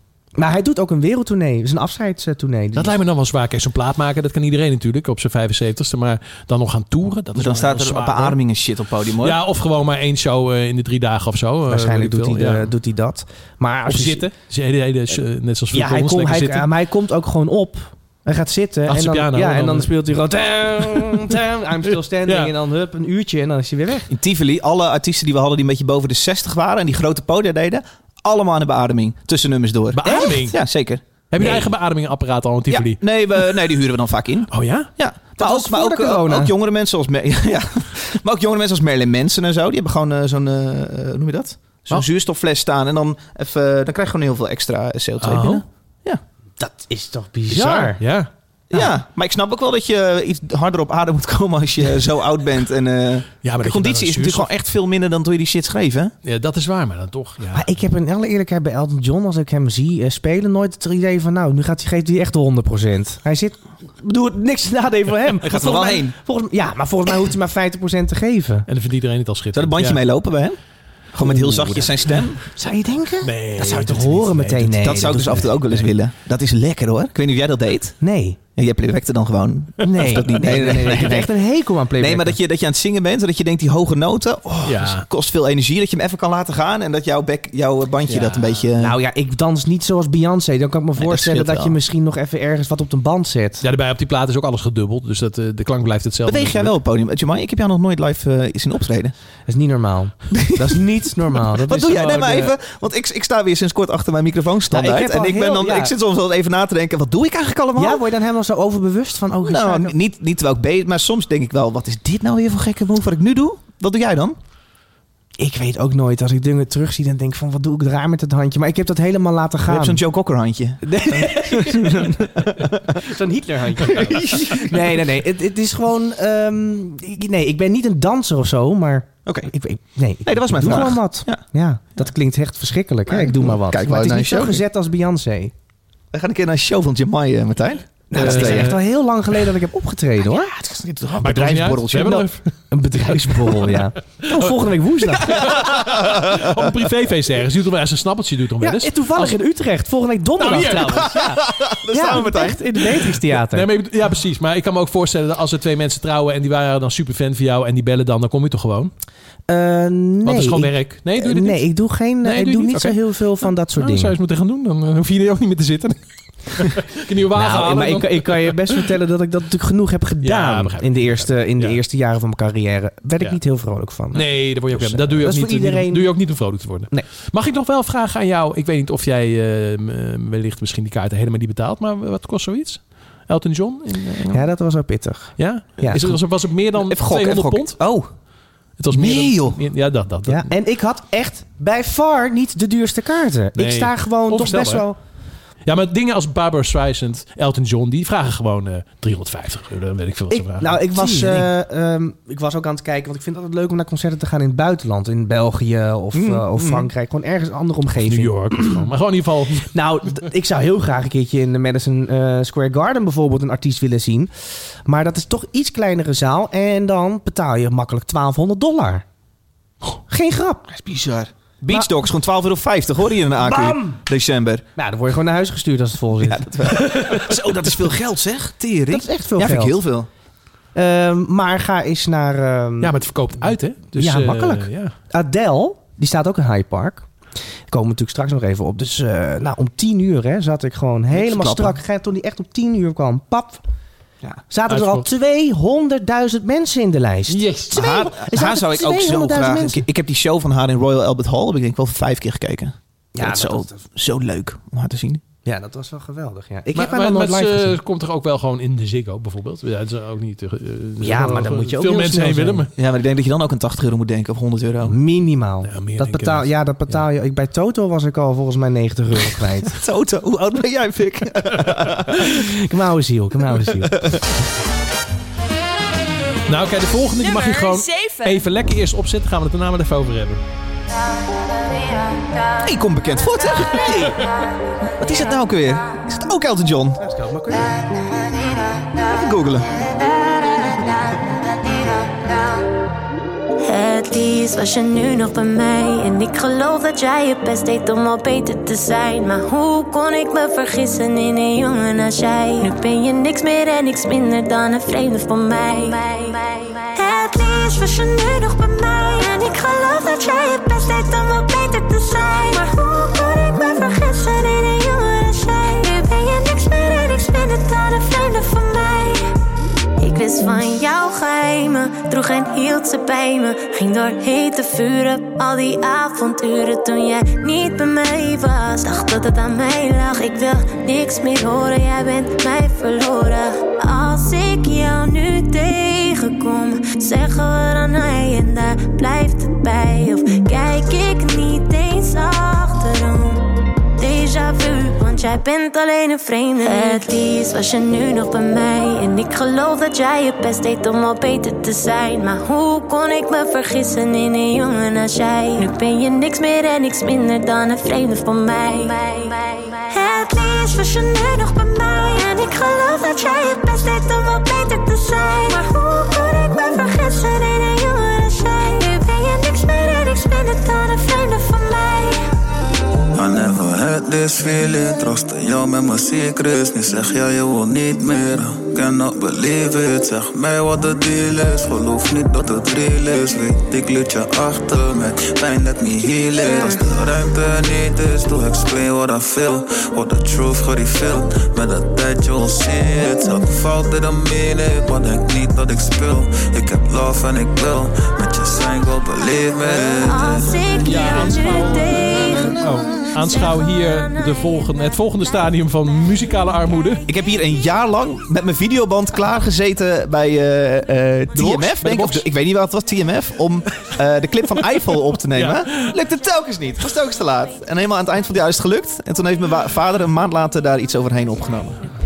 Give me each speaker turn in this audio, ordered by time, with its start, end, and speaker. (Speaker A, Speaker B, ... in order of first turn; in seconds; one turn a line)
Speaker A: 0.3-3.0
Speaker B: 2.7-8.4
Speaker C: 7.3-9.4
Speaker B: 9.2-12.7
Speaker A: 11.7-14.3
Speaker B: 13.8-16.7
Speaker A: 15.7-24.1
Speaker B: 18.9-19.9
Speaker B: 22.2-22.5
Speaker C: 24.1-31.7
Speaker B: 29.9-30.6
Speaker A: 30.0-30.4
Speaker B: 31.3-33.0
Speaker C: 32.7-46.2
Speaker B: 34.5-34.9
Speaker A: 35.4-36.5
Speaker B: 45.2-45.6
Speaker A: 46.6-48.0
Speaker B: 47.5-48.3
Speaker C: 48.7-56.1
Speaker B: 53.4-54.5
Speaker B: 56.2-57.7
Speaker A: 57.5-68.7
Speaker C: 65.4-66.2
Speaker B: 68.7-70.0
Speaker C: 69.5-70.6
Speaker C: 71.1-72.4
Speaker A: 71.2-75.5
Speaker B: 73.2-75.9
Speaker C: 74.8-78.0
Speaker A: 78.0-78.4
Speaker C: 78.5-81.3
Speaker A: 79.8-82.4
Speaker C: 82.0-89.0
Speaker B: 84.6-85.0
Speaker B: 88.1-88.7
Speaker A: 88.8-93.6
Speaker C: 91.0-91.8
Speaker B: 93.6-96.7
Speaker C: 96.2-99.1
Speaker A: 99.5-102.5
Speaker C: 100.3-100.7
Speaker C: 101.7-108.0
Speaker A: 104.7-105.9
Speaker A: 107.8-110.0
Speaker C: 109.4-114.4
Speaker A: 115.4-120.0
Speaker C: 119.7-123.0
Speaker A: 120.8-135.5
Speaker C: 123.9-124.7
Speaker C: 129.2-129.5
Speaker C: 130.2-131.4
Speaker C: 133.1-134.6
Speaker C: 136.1-138.7
Speaker A: 138.1-140.5
Speaker B: 138.2-138.8
Speaker C: 140.3-142.2
Speaker B: 141.2-142.5
Speaker A: 142.7-145.6
Speaker B: 143.2-144.6
Speaker B: 145.2-149.4
Speaker C: 145.3-146.5
Speaker A: 148.6-153.7
Speaker B: 150.4-151.2
Speaker C: 151.1-152.8
Speaker B: 153.5-158.9
Speaker A: 159.5-164.1
Speaker B: 160.2-163.1
Speaker B: 163.7-168.8
Speaker A: 167.3-176.3
Speaker B: 170.2-171.8
Speaker B: 174.1-184.5
Speaker A: 184.3-186.0
Speaker B: 185.4-187.8
Speaker C: 185.8-186.2
Speaker C: 186.7-188.1
Speaker B: 188.8-190.5
Speaker C: 188.9-189.6
Speaker A: 190.2-194.9
Speaker B: 193.6-194.9
Speaker B: 195.6-200.8
Speaker A: 200.3-208.9
Speaker C: 201.0-201.4
Speaker C: 206.1-206.9
Speaker B: 208.0-209.7
Speaker A: 209.7-219.0
Speaker A: 220.1-220.7
Speaker C: 220.7-224.6
Speaker A: 223.4-224.0
Speaker A: 224.8-226.4
Speaker C: 226.2-230.1
Speaker B: 226.8-227.2
Speaker A: 228.9-229.8
Speaker A: 230.7-233.0
Speaker B: 232.8-234.9
Speaker A: 233.9-237.1
Speaker A: 237.7-243.6
Speaker C: 241.1-241.8
Speaker A: 244.5-249.8
Speaker B: 244.7-245.0
Speaker B: 247.3-247.7
Speaker C: 247.7-255.2
Speaker A: 253.1-253.8
Speaker A: 255.4-257.8
Speaker B: 256.7-262.7
Speaker A: 261.0-262.7
Speaker C: 262.7-264.9
Speaker A: 264.8-269.8
Speaker B: 265.6-267.0
Speaker C: 269.8-272.3
Speaker A: 272.2-274.2
Speaker B: 276.5-280.4
Speaker C: 282.6-284.2
Speaker C: 284.9-287.0
Speaker A: 287.0-287.7
Speaker C: 289.1-289.7
Speaker D: 293.6-319.3
Speaker D: 320.0-343.4
Speaker D: 343.9-372.3
Speaker E: 373.1-400.8
Speaker D: 399.7-403.9
Speaker B: 400.8-407.0
Speaker C: 407.1-421.8
Speaker B: 411.3-412.3
Speaker B: 415.3-415.9